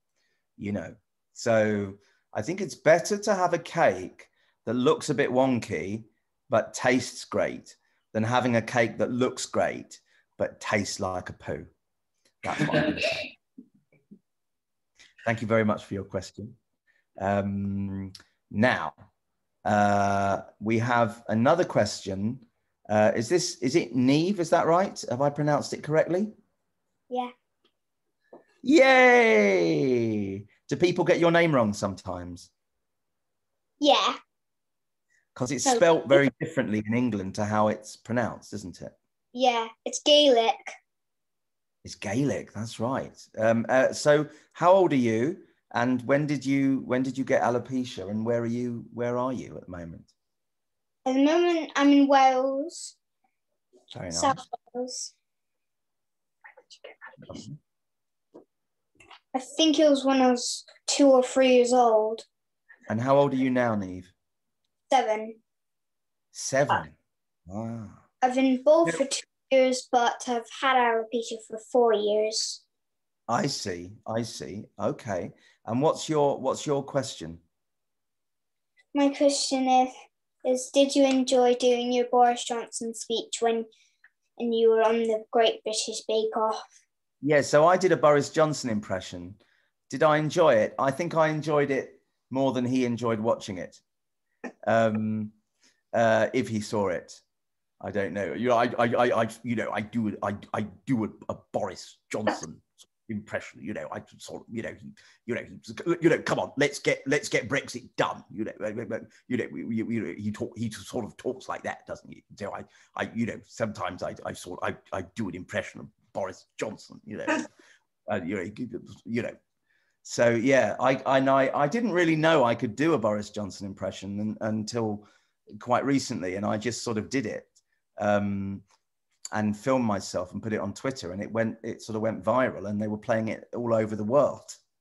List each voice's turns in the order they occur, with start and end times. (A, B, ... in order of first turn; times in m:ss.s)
0:00.6-0:11.7 A
0:12.4-0:13.3 A
0:15.2-0:16.6 A
0:17.2-0:19.0 A
0:19.6-0:26.3 A
0:28.6-0:32.5 A
0:35.3-0:38.9 A
0:39.3-0:40.6 B
0:41.8-0:50.1 A
0:51.0-0:53.0 B
0:53.9-0:54.4 A
0:54.1-0:55.1 B
0:57.3-0:57.6 A
0:59.3-1:02.2 B
1:02.9-1:04.1 A
1:04.9-1:05.4 B
1:06.3-1:06.9 A
1:07.5-1:08.0 A
1:08.2-1:12.6 B
1:13.3-1:17.4 A
1:18.9-1:19.9 B
1:20.4-1:23.7 B
1:24.4-1:26.6 B
1:27.2-1:33.8 A
1:34.6-1:35.3 A
1:35.9-1:37.2 A
1:37.8-1:57.5 A
1:58.1-1:59.4 A
2:00.0-2:08.6 A
2:09.3-2:14.6 A